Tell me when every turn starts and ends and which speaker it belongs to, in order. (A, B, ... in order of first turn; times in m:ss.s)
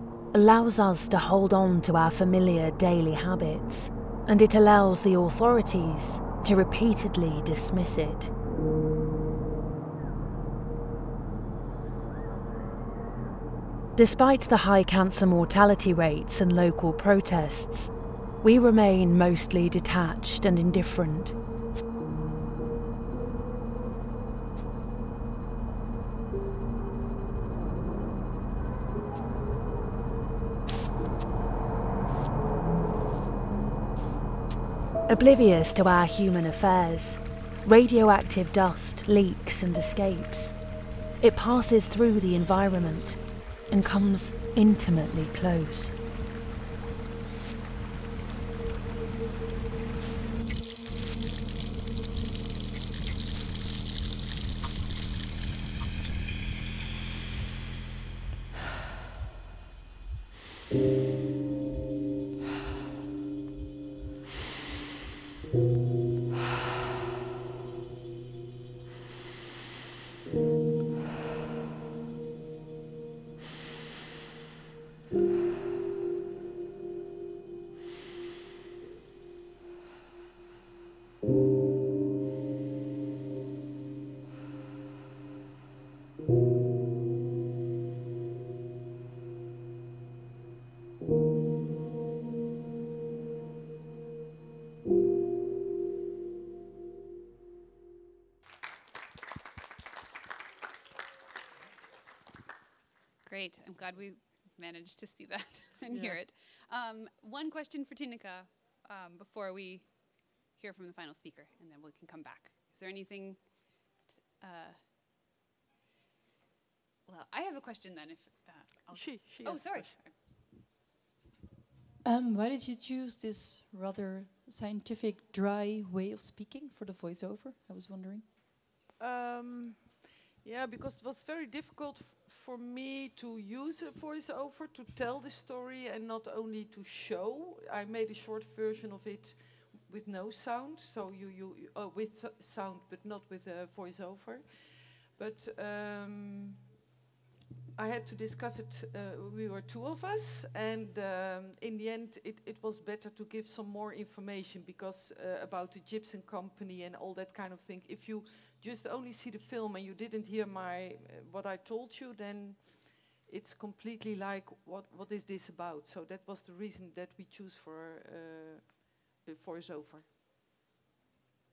0:00.3-0:08.3 A
0:14.0-0:17.9 A
0:18.4-0:21.4 A
0:35.1-0:40.6 A
0:41.2-0:45.9 A
1:43.2-1:54.9 B
1:45.9-1:46.2 C
1:57.1-2:00.2 B
1:58.9-2:00.0 C
2:02.0-2:08.4 D
2:09.0-2:26.7 C
2:27.8-2:50.1 C